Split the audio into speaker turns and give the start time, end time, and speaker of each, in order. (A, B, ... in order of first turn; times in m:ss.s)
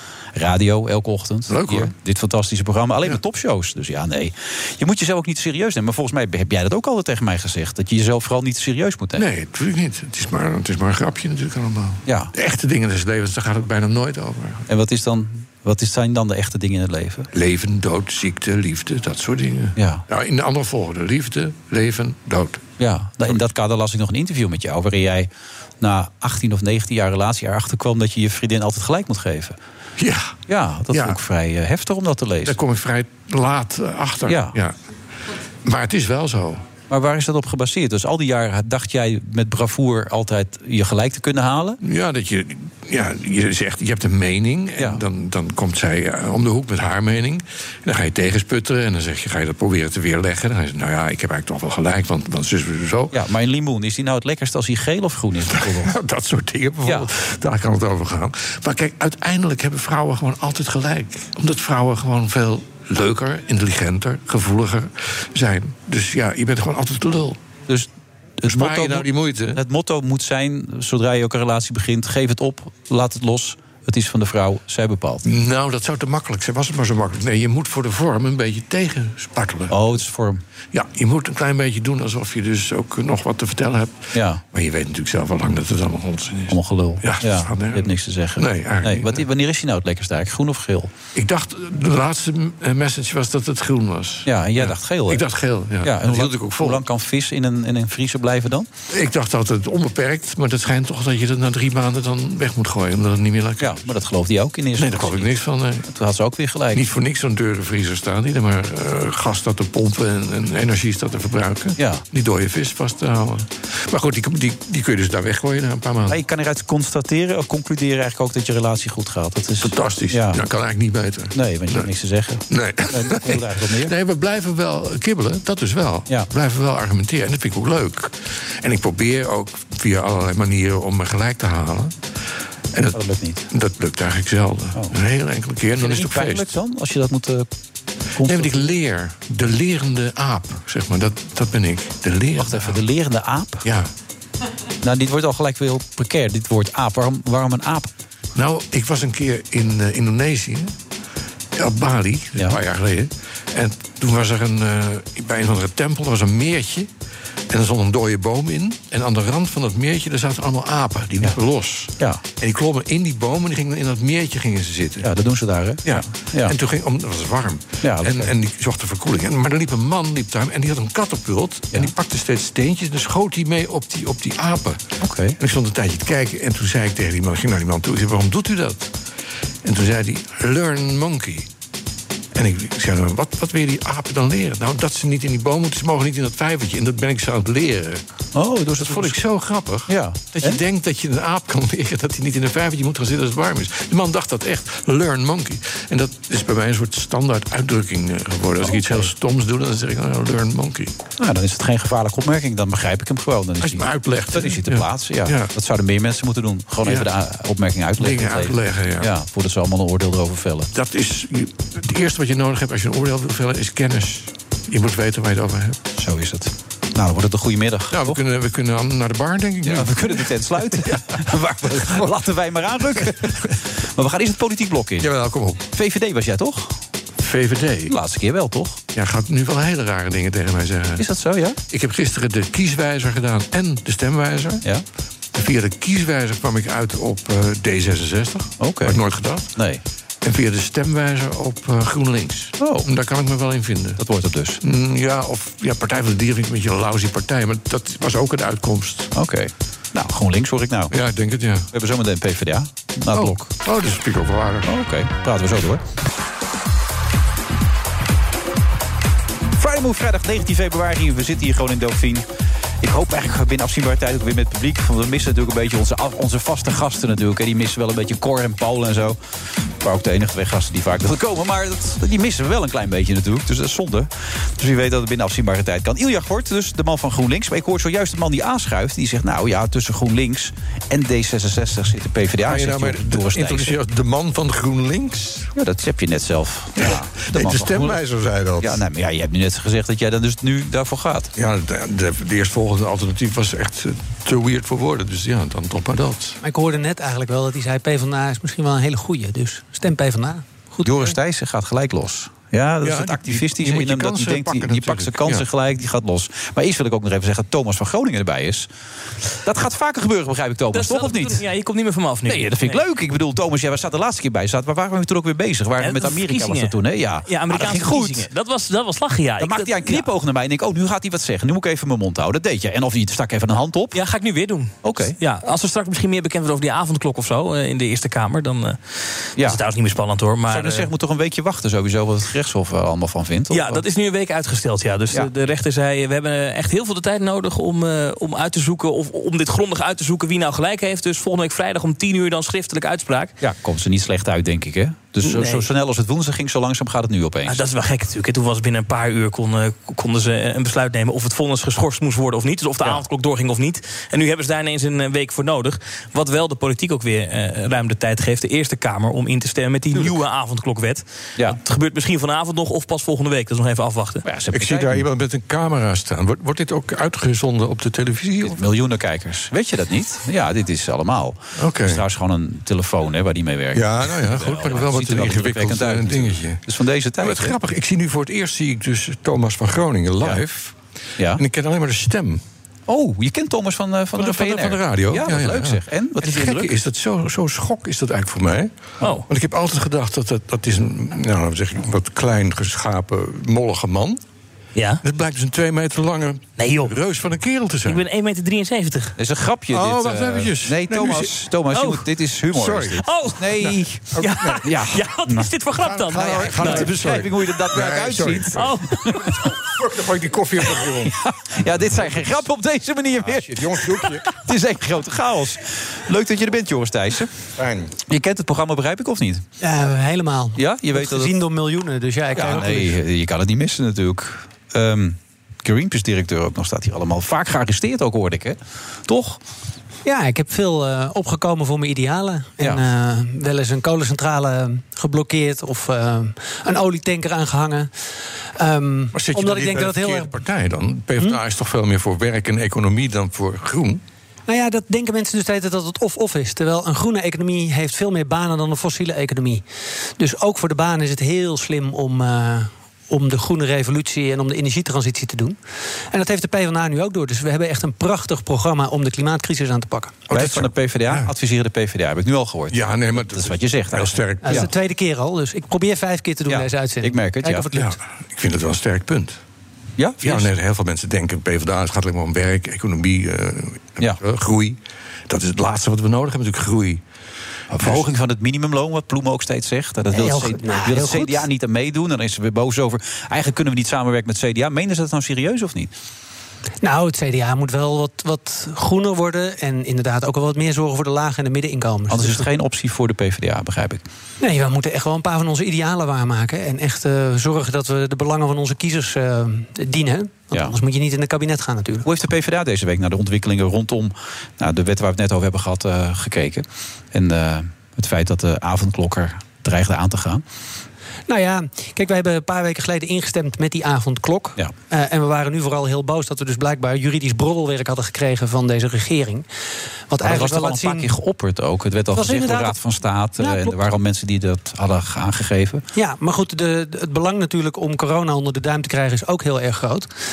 0:00.3-0:09.3 A
0:01.5-0:01.9 B
0:09.2-0:14.6 B
0:12.0-0:12.3 A
0:14.7-0:17.3 A
0:17.3-0:22.6 B
0:19.8-0:20.0 A
0:22.8-0:29.6 A
0:30.0-0:30.4 B
0:30.5-0:32.6 A
0:30.9-0:31.2 B
0:32.4-0:34.8 B
0:34.2-0:34.5 A
0:35.6-0:36.6 B
0:36.9-0:41.8 A
0:41.8-0:53.1 B
0:44.8-0:45.0 A
0:53.1-0:55.9 A
0:55.5-1:07.4 B
0:56.8-0:57.1 A
1:07.7-1:15.2 A
1:08.4-1:09.6 B
1:15.2-1:19.9 B
1:19.7-1:20.4 A
1:20.7-1:29.2 B
1:24.1-1:24.4 A
1:26.5-1:30.9 A
1:31.1-1:36.8 B
1:34.2-1:35.2 A
1:35.8-1:38.7 A
1:38.9-1:43.8 B
1:43.6-1:46.9 A
1:44.8-1:45.8 B
1:46.7-1:56.2 B
1:51.8-1:52.0 A
1:56.1-2:00.4 A
1:59.6-2:01.9 B
2:01.3-2:03.9 A
2:02.5-2:11.9 B
2:12.7-2:13.0 B
2:12.9-2:13.4 A
2:13.5-2:16.5 B
2:15.8-2:17.5 A
2:18.2-2:18.7 A
2:18.2-2:22.8 B
2:22.4-2:23.6 A
2:23.6-2:23.9 B
2:24.8-2:27.9 A
2:28.3-2:30.7 B
2:31.6-2:36.9 B
2:37.5-2:45.1 B
2:45.0-2:46.6 A
2:45.8-2:54.8 B
2:47.8-2:48.3 A
2:55.0-2:55.4 A
2:55.4-2:58.9 B
2:59.6-3:01.5 B
3:02.3-3:08.0 B
3:08.3-3:09.2 A
3:08.8-3:21.0 B
3:09.9-3:10.6 A
3:18.6-3:19.1 A
3:21.2-3:30.7 A
3:23.6-3:25.5 B
3:28.0-3:29.1 B
3:30.7-3:35.8 B
3:35.9-3:38.2 A
3:37.9-3:42.1 B
3:39.6-3:45.1 A
3:43.0-3:43.5 B
3:45.0-3:45.6 B
3:45.7-3:46.8 A
3:47.2-3:47.9 B
3:47.9-3:48.8 A
3:48.9-3:51.0 B
3:51.0-3:51.6 A
3:51.7-3:54.6 B
3:55.3-3:59.5 B
3:58.6-3:59.0 A
3:59.5-3:59.8 A
4:00.2-4:04.0 B
4:02.6-4:02.9 A
4:04.0-4:04.6 A
4:04.6-4:09.1 B
4:09.1-4:11.0 A
4:10.9-4:11.7 B
4:11.7-4:13.5 A
4:13.1-4:14.7 B
4:14.6-4:15.8 A
4:19.6-4:22.2 A
4:22.8-4:29.2 A
4:29.8-4:43.8 A
4:42.4-4:45.5 B
4:45.5-4:48.0 A
4:46.8-4:48.8 B
4:48.6-4:51.3 A
4:51.4-4:56.4 B
4:56.4-5:01.1 C
5:00.8-5:08.7 A
5:02.8-5:05.4 B
5:09.4-5:11.4 A
5:10.7-5:12.8 D
5:12.3-5:18.3 A
5:15.8-5:20.1 D
5:19.4-5:24.0 A
5:23.9-5:30.9 D
5:24.8-5:25.2 A
5:30.5-5:33.8 A
5:33.5-5:43.3 D
5:43.4-5:47.6 A
5:45.2-5:45.7 D
5:47.5-6:04.2 D
5:59.9-6:00.2 A
6:04.2-6:05.0 A
6:04.5-6:08.6 B
6:08.4-6:17.6 A
6:11.6-6:12.0 B
6:13.7-6:16.6 B
6:17.2-6:20.8 B
6:21.3-6:22.4 B
6:22.9-6:26.8 A
6:24.2-6:28.7 B
6:29.3-6:34.2 B
6:34.8-6:35.0 D
6:35.0-6:38.0 B
6:36.6-6:36.9 D
6:37.8-6:39.1 D
6:39.2-6:45.5 A
6:39.7-6:41.3 B
6:41.7-6:42.0 D
6:42.5-6:43.0 B
6:43.0-6:43.6 D
6:43.6-6:44.6 B
6:44.2-6:47.0 D
6:45.8-6:48.7 B
6:46.1-6:49.4 A
6:48.5-6:49.0 D
6:49.2-6:51.2 B
6:50.7-6:57.3 A
6:51.8-6:52.3 B
6:53.2-6:54.3 B
6:57.6-6:57.9 B
6:58.1-6:59.4 A
6:59.6-7:02.9 C
7:00.6-7:01.3 A
7:02.3-7:09.4 A
7:10.0-7:17.9 C
7:18.6-7:20.3 C
7:19.1-7:24.0 B
7:24.5-7:29.6 C
7:30.2-7:35.6 C
7:36.1-7:40.3 C
7:40.3-7:44.7 A
7:40.3-7:41.3 B
7:42.7-7:44.7 B
7:44.4-7:47.9 C
7:46.5-7:47.7 A
7:47.7-7:49.4 B
7:50.0-7:50.5 A
7:50.2-7:57.0 B
7:57.7-8:05.9 A
8:00.1-8:01.4 C
8:06.8-8:12.4 C
8:12.1-8:14.0 A
8:14.4-8:22.0 C
8:22.0-8:30.4 A
8:31.3-8:39.5 C
8:40.1-8:41.1 C
8:40.2-8:45.8 A
8:42.1-8:42.8 C
8:43.4-8:43.8 C
8:45.9-8:50.1 C